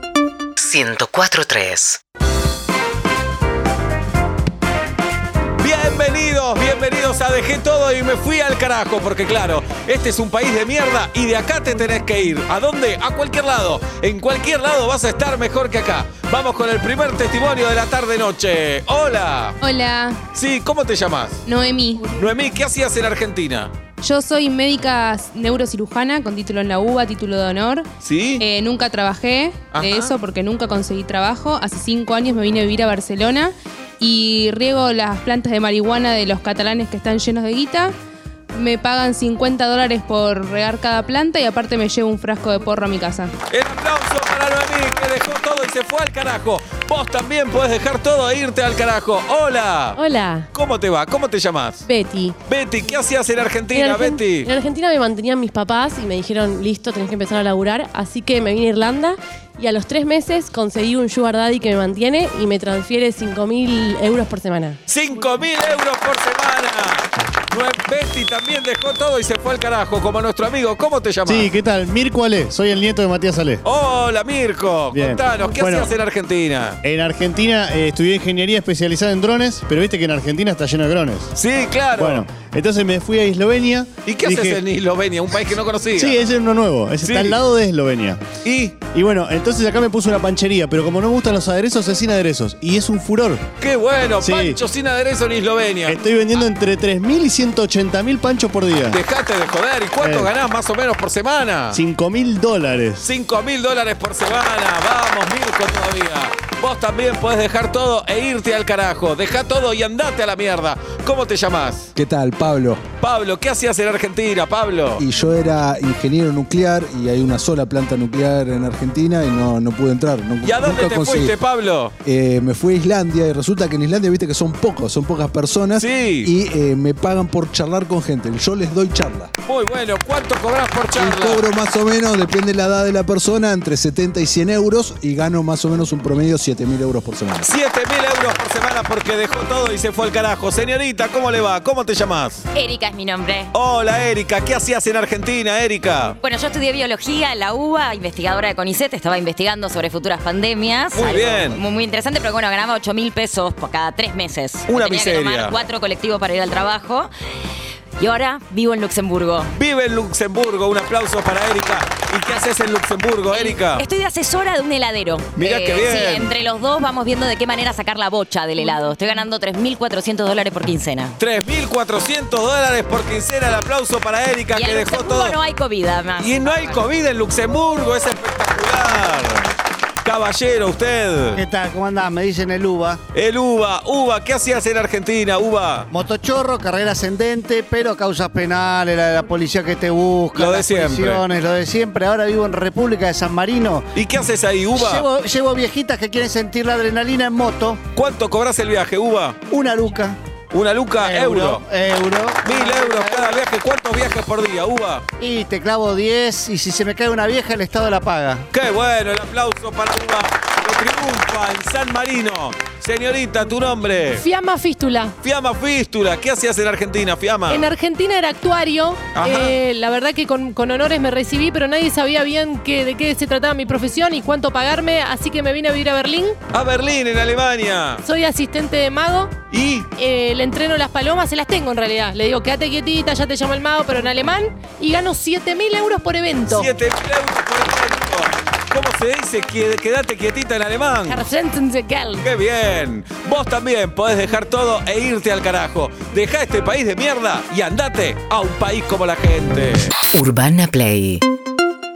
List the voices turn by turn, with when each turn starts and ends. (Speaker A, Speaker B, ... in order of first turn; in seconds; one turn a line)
Speaker A: 0.6-2.0
Speaker B: 5.6-19.6
Speaker C: 19.6-20.2
Speaker B: 20.3-21.4
Speaker C: 21.5-22.1
Speaker B: 22.0-23.7
Speaker C: 24.0-27.9
Speaker B: 28.0-28.4
Speaker C: 28.4-38.0
Speaker B: 29.7-30.1
Speaker C: 38.5-43.4
Speaker B: 43.5-50.0
Speaker D: 50.0-50.5
Speaker B: 50.5-51.8
Speaker D: 51.9-52.4
Speaker B: 52.5-54.5
Speaker D: 53.7-64.8
Speaker B: 64.9-71.5
Speaker E: 71.3-73.6
Speaker B: 73.6-76.8
Speaker E: 74.9-75.9
Speaker E: 76.8-81.3
Speaker B: 81.3-82.3
Speaker E: 82.0-84.6
Speaker B: 84.1-86.2
Speaker E: 86.0-88.2
Speaker B: 87.0-87.4
Speaker B: 88.4-88.8
Speaker E: 88.8-93.4
Speaker B: 93.6-96.0
Speaker E: 94.2-94.6
Speaker E: 95.9-99.0
Speaker B: 98.9-101.8
Speaker E: 100.0-100.3
Speaker E: 101.7-103.1
Speaker B: 103.0-111.9
Speaker F: 112.0-112.8
Speaker B: 113.0-115.0
Speaker F: 115.0-121.3
Speaker B: 120.4-121.9
Speaker F: 122.0-129.3
Speaker B: 125.8-126.3
Speaker B: 129.4-131.4
Speaker F: 131.0-137.5
Speaker B: 137.4-142.4
Speaker G: 142.5-143.5
Speaker B: 143.5-146.2
Speaker G: 146.2-157.1
Speaker B: 150.9-151.6
Speaker B: 154.7-155.6
Speaker G: 158.0-159.5
Speaker B: 159.5-163.8
Speaker G: 163.3-171.1
Speaker B: 165.4-166.4
Speaker B: 171.2-175.4
Speaker G: 174.6-176.8
Speaker B: 176.2-179.5
Speaker B: 180.0-181.4
Speaker H: 181.4-183.0
Speaker B: 183.1-185.9
Speaker H: 185.9-193.9
Speaker B: 190.3-191.2
Speaker B: 193.9-195.1
Speaker H: 194.7-197.8
Speaker B: 197.9-199.4
Speaker H: 199.5-200.2
Speaker B: 200.5-201.6
Speaker H: 201.0-203.4
Speaker B: 202.4-205.0
Speaker H: 205.2-208.5
Speaker B: 208.5-214.2
Speaker I: 214.2-215.1
Speaker B: 215.2-217.7
Speaker I: 217.5-226.4
Speaker B: 219.1-219.6
Speaker B: 226.5-228.0
Speaker I: 228.0-229.3
Speaker B: 229.5-229.9
Speaker I: 230.0-236.7
Speaker B: 236.5-241.2
Speaker I: 241.1-242.2
Speaker B: 242.2-249.9
Speaker A: 250.1-251.2